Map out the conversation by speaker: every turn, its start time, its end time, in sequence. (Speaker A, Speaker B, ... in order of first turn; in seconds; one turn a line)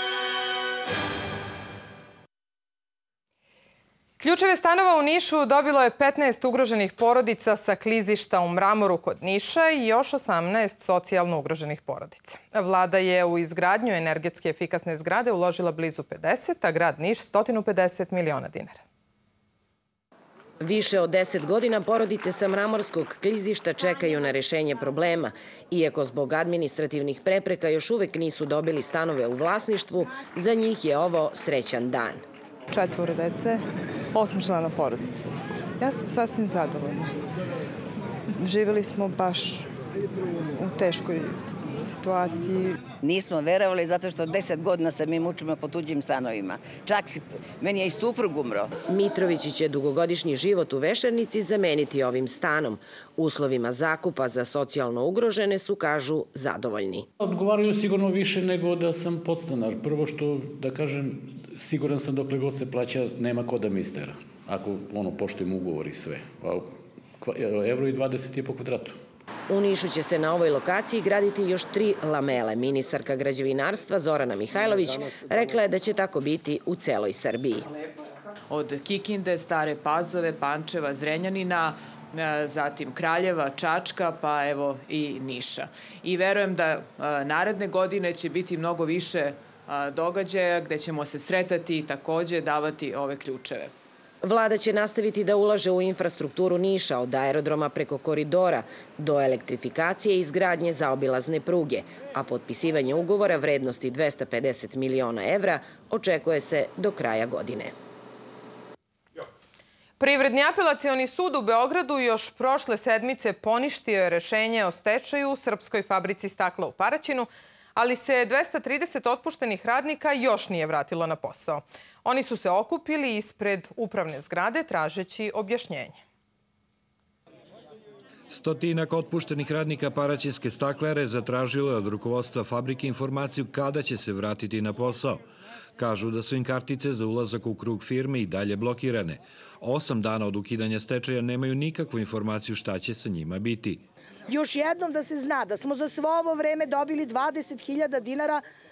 Speaker A: 4.2-18.8
Speaker B: 20.6-32.2
Speaker C: 32.8-33.5
Speaker C: 34.2-35.2
Speaker C: 35.9-36.8
Speaker C: 38.5-39.4
Speaker D: 43.0-48.7
Speaker B: 48.9-57.1
Speaker E: 57.2-69.0
Speaker B: 69.5-77.7
Speaker F: 78.5-93.7
Speaker B: 94.2-107.7
Speaker A: 110.0-126.0
Speaker G: 128.3-135.2
Speaker G: 135.8-143.8
Speaker H: 144.4-148.3